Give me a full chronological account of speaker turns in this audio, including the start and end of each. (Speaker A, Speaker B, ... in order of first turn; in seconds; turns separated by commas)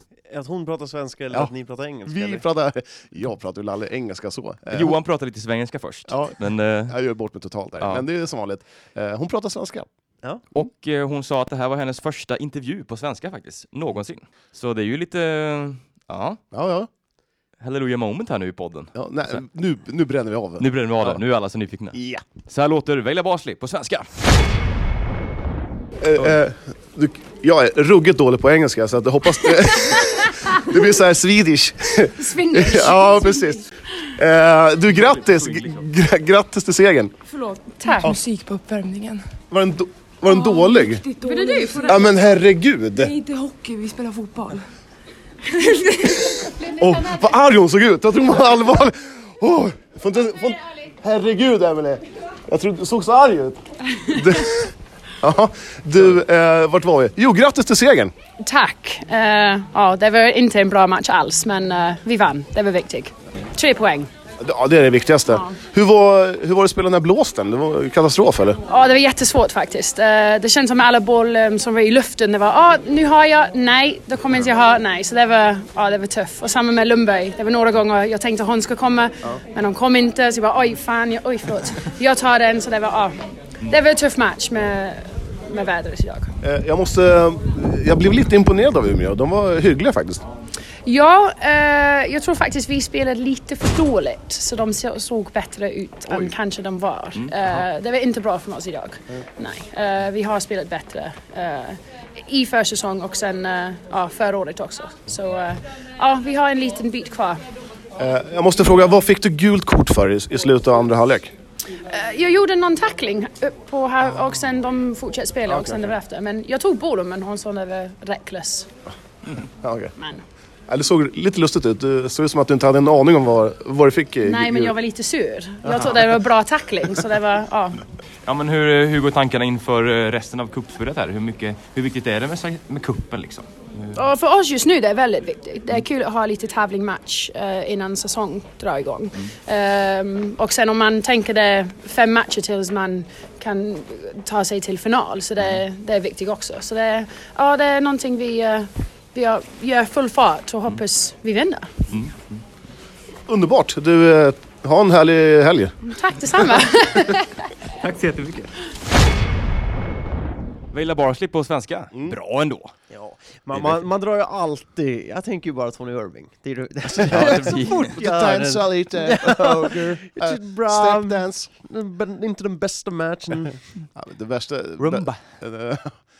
Speaker A: 0.3-2.5, Speaker B: 2.0-4.9, Speaker C: 4.7-7.0, Speaker B: 6.1-9.9, Speaker C: 7.8-8.0, Speaker C: 10.5-16.4, Speaker B: 16.5-16.9, Speaker C: 17.6-19.4, Speaker B: 18.9-21.2, Speaker C: 20.6-24.1, Speaker B: 21.9-22.2, Speaker B: 26.0-37.1, Speaker D: 32.2-33.3, Speaker E: 32.7-33.6, Speaker C: 34.9-35.8, Speaker E: 37.3-39.2, Speaker D: 37.8-38.1, Speaker B: 39.5-41.0, Speaker E: 40.3-42.0, Speaker D: 41.2-42.0, Speaker B: 41.8-43.1, Speaker E: 43.0-44.7, Speaker E: 45.5-46.5, Speaker B: 46.6-58.1, Speaker D: 58.4-64.1, Speaker B: 64.4-68.6, Speaker D: 68.7-83.2, Speaker D: 83.7-86.3, Speaker B: 86.4-90.2, Speaker D: 90.8-107.4, Speaker B: 96.1-96.3, Speaker C: 97.1-97.6, Speaker B: 108.0-111.3, Speaker D: 111.9-118.7, Speaker B: 115.5-115.9, Speaker B: 119.5-119.9, Speaker D: 120.0-120.2, Speaker B: 120.7-124.7, Speaker D: 124.2-127.8, Speaker B: 125.6-126.0, Speaker C: 128.2-134.0, Speaker D: 133.9-151.7, Speaker C: 151.9-152.4, Speaker B: 153.3-156.6, Speaker D: 155.9-157.3, Speaker C: 157.8-158.5, Speaker C: 160.7-162.7, Speaker A: 162.9-173.6, Speaker C: 163.5-163.8, Speaker C: 167.0-167.9, Speaker B: 167.1-171.5, Speaker B: 173.9-176.0, Speaker C: 174.8-175.2